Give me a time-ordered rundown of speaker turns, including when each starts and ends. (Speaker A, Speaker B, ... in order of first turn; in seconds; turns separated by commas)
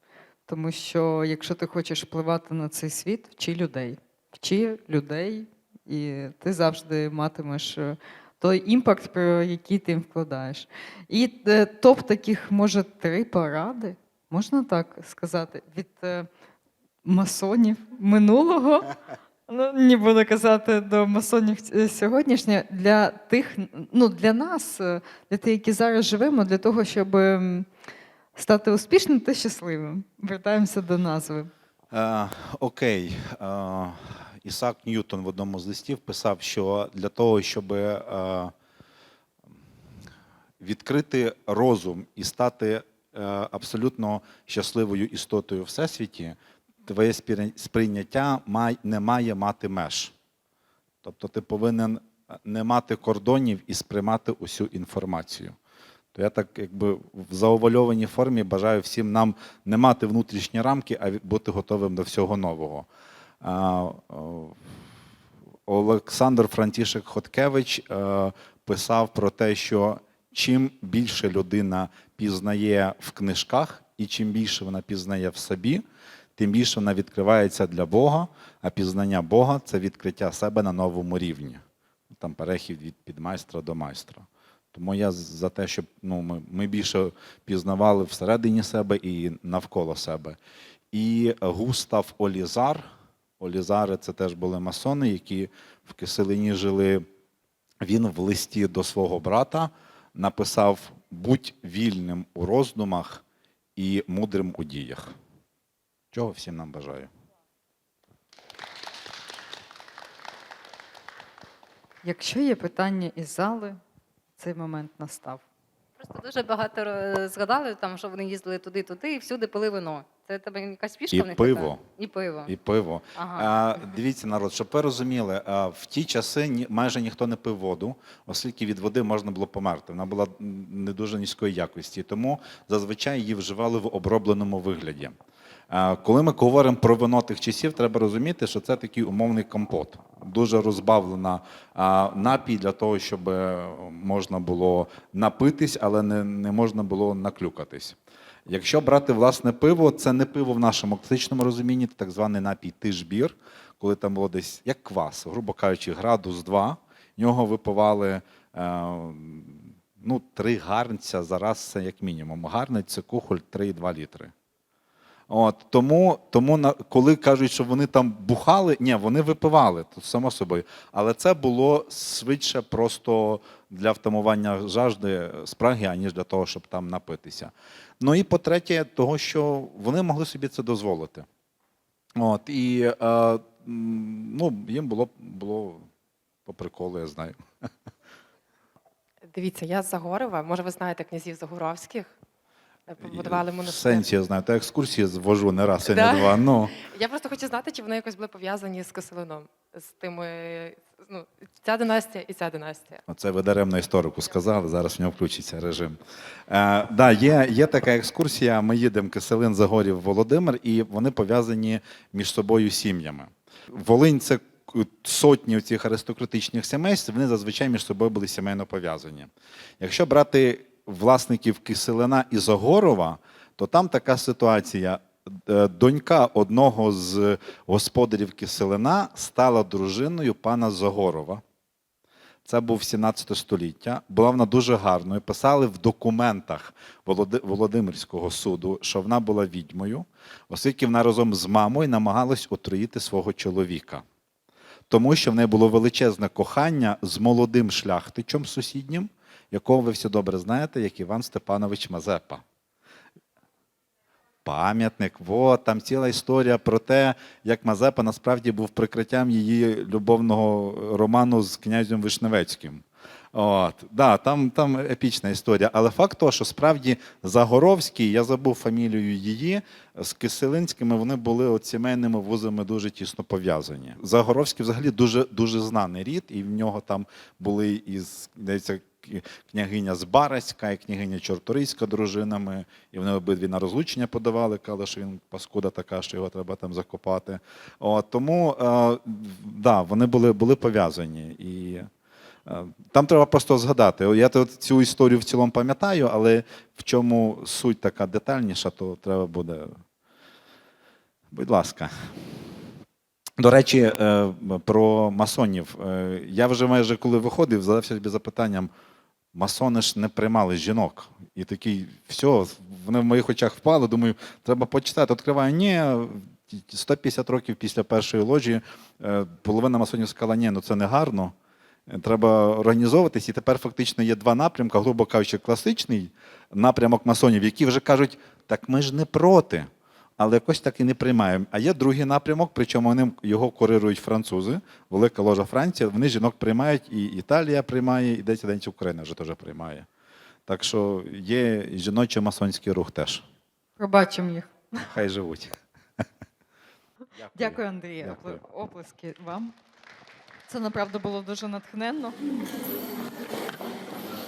Speaker A: 0.5-16.3, Speaker A: 17.0-18.9, Speaker A: 19.5-27.7, Speaker A: 28.3-31.5, Speaker B: 31.9-38.5, Speaker B: 40.6-50.1, Speaker B: 51.0-55.5, Speaker B: 56.1-62.9, Speaker B: 63.4-64.6, Speaker B: 65.7-75.8, Speaker B: 76.3-90.4, Speaker B: 90.9-92.9, Speaker B: 93.4-97.0, Speaker B: 97.8-103.2, Speaker B: 103.8-105.1, Speaker B: 106.1-107.1, Speaker A: 112.0-113.8, Speaker A: 114.4-115.4, Speaker C: 116.0-122.5, Speaker B: 121.1-121.8, Speaker B: 122.5-135.1, Speaker C: 123.2-123.5, Speaker B: 135.7-164.3, Speaker B: 165.3-181.2, Speaker B: 182.2-185.8, Speaker B: 186.4-187.3, Speaker D: 189.3-192.1, Speaker D: 192.9-194.1, Speaker B: 193.0-196.7, Speaker D: 195.8-203.0, Speaker B: 203.1-206.0, Speaker B: 206.5-231.4, Speaker B: 232.4-244.0, Speaker B: 244.9-252.4, Speaker B: 254.4-291.9, Speaker B: 292.4-299.8, Speaker B: 301.3-301.9, Speaker B: 303.4-308.7, Speaker B: 309.3-321.3, Speaker B: 321.9-339.9, Speaker B: 340.4-343.2, Speaker A: 343.8-344.5, Speaker B: 344.8-345.5, Speaker B: 347.2-348.4, Speaker A: 347.3-349.5, Speaker A: 350.5-352.2